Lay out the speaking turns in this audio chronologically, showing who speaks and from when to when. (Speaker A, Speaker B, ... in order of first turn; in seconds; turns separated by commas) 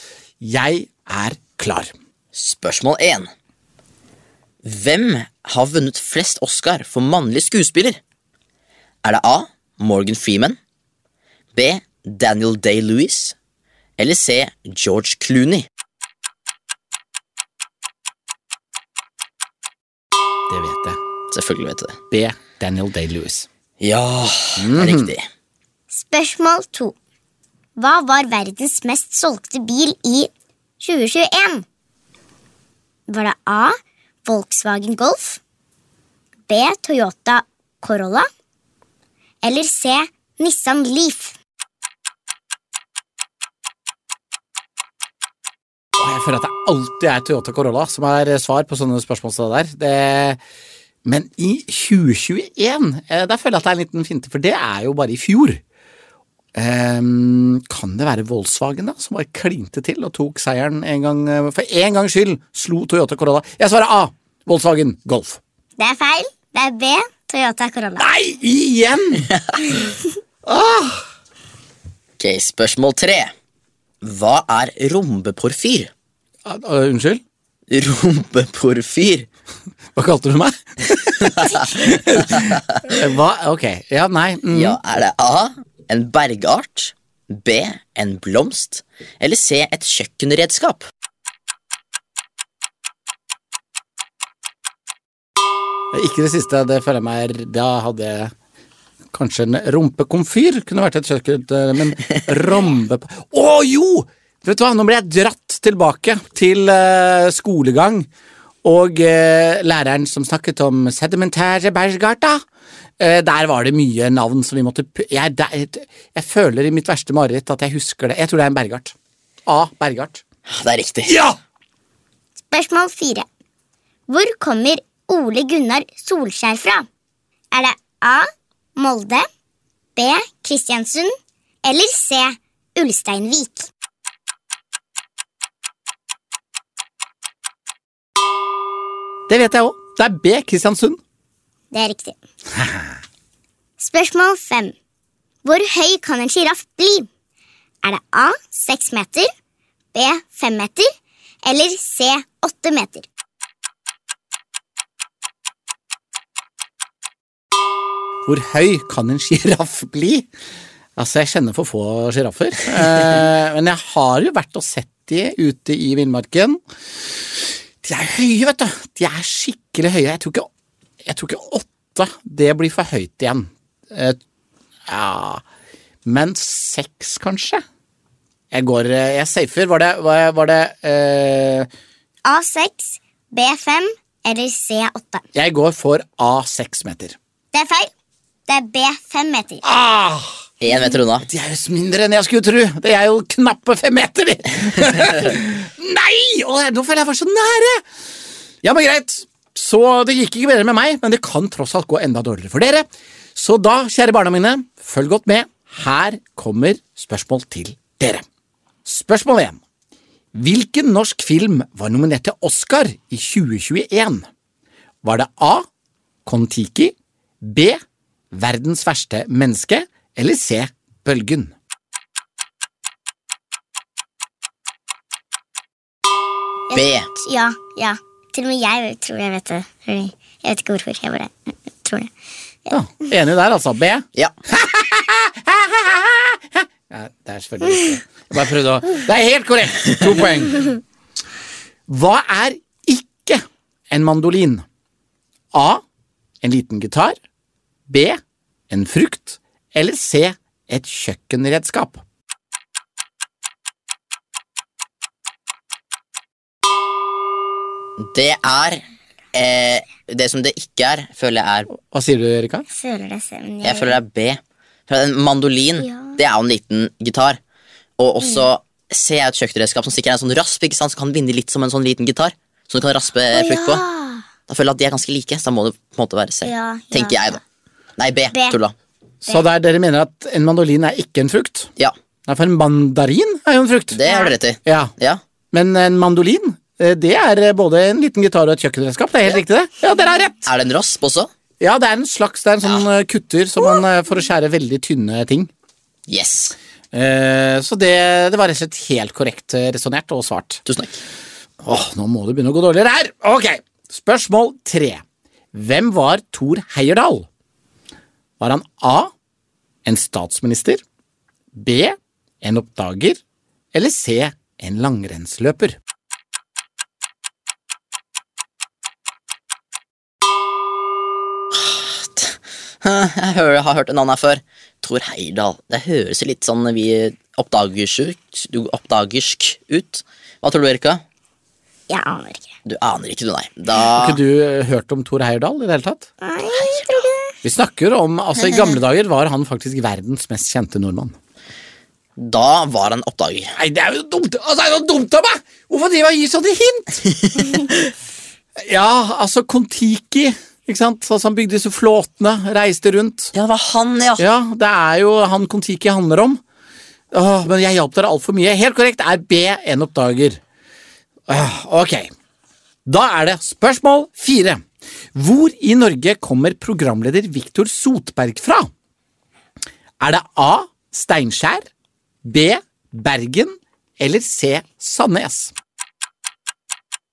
Speaker A: 0.4-1.9, Speaker B: 2.3-3.3, Speaker B: 4.6-8.0, Speaker B: 9.0-10.6, Speaker B: 11.5-13.3, Speaker B: 14.0-15.7, Speaker A: 20.5-21.0, Speaker B: 21.3-22.0, Speaker A: 22.1-23.5, Speaker B: 23.8-25.2, Speaker A: 24.6-25.1, Speaker C: 25.9-26.9, Speaker C: 27.8-31.6, Speaker C: 33.1-35.4, Speaker C: 36.5-38.3, Speaker C: 39.4-41.4, Speaker A: 46.0-50.4, Speaker A: 51.0-55.6, Speaker A: 56.5-65.4, Speaker C: 65.8-68.0, Speaker A: 68.0-69.3, Speaker A: 70.5-71.0, Speaker B: 72.2-73.3, Speaker B: 74.0-75.9, Speaker A: 76.4-77.2, Speaker B: 77.7-79.3, Speaker A: 79.9-84.8, Speaker B: 81.2-81.7, Speaker B: 82.3-82.8, Speaker B: 84.5-90.9, Speaker A: 95.9-98.3, Speaker A: 99.1-108.1, Speaker A: 108.6-112.4, Speaker A: 113.0-118.9, Speaker A: 119.5-120.2, Speaker B: 120.5-121.2, Speaker A: 121.0-121.4, Speaker C: 122.5-123.2, Speaker C: 124.1-126.9, Speaker C: 127.5-129.2, Speaker C: 129.9-131.1, Speaker C: 131.6-133.7, Speaker A: 139.3-141.0, Speaker C: 141.7-142.1, Speaker A: 142.6-142.9, Speaker C: 143.8-144.7, Speaker C: 145.4-147.1, Speaker C: 147.8-149.3, Speaker C: 149.9-150.9, Speaker C: 151.4-153.1, Speaker A: 158.2-160.3, Speaker A: 160.9-166.6, Speaker A: 167.8-170.5, Speaker A: 171.0-174.2, Speaker A: 174.9-175.4, Speaker A: 176.0-177.6, Speaker A: 178.5-181.7, Speaker C: 182.2-185.2, Speaker A: 185.3-187.2, Speaker C: 187.5-187.9, Speaker C: 188.5-189.6, Speaker A: 189.6-190.7, Speaker B: 190.6-191.3, Speaker A: 191.2-197.8, Speaker A: 198.6-208.2, Speaker A: 208.8-209.6, Speaker A: 210.3-214.3, Speaker A: 215.0-215.7, Speaker A: 216.2-217.8, Speaker A: 218.3-221.5, Speaker C: 226.7-232.1, Speaker B: 226.7-227.1, Speaker A: 232.7-240.7, Speaker A: 241.9-244.6, Speaker A: 245.5-245.8, Speaker A: 246.4-247.2, Speaker A: 247.9-248.2, Speaker A: 248.7-252.0, Speaker B: 258.0-261.7, Speaker A: 261.7-262.6, Speaker C: 262.7-264.0, Speaker B: 263.6-267.4, Speaker C: 265.8-266.1, Speaker B: 268.0-273.8, Speaker C: 268.2-268.5, Speaker C: 273.3-274.2, Speaker B: 274.5-277.4, Speaker C: 276.4-277.4, Speaker B: 278.0-278.7, Speaker C: 278.3-278.6, Speaker A: 279.2-281.7, Speaker A: 282.3-284.0, Speaker B: 283.9-285.2, Speaker C: 284.1-284.3, Speaker A: 284.6-284.9, Speaker A: 285.5-290.5, Speaker B: 290.4-291.3, Speaker A: 291.6-295.5, Speaker B: 296.1-296.6, Speaker A: 296.9-300.6, Speaker B: 300.6-301.0, Speaker A: 301.6-307.3, Speaker A: 308.4-309.1, Speaker A: 309.8-310.8, Speaker A: 311.5-313.2, Speaker A: 313.7-315.8, Speaker B: 321.5-331.0, Speaker C: 331.9-332.5, Speaker B: 332.6-334.2, Speaker A: 333.9-336.1, Speaker C: 336.2-337.3, Speaker A: 337.4-341.1, Speaker B: 342.2-343.5, Speaker A: 343.6-347.0, Speaker A: 348.6-353.3, Speaker B: 353.3-354.2, Speaker A: 354.2-356.4, Speaker A: 357.1-360.4, Speaker A: 361.3-362.1, Speaker A: 362.9-364.6, Speaker A: 365.1-368.7, Speaker A: 370.0-371.6, Speaker A: 372.2-375.5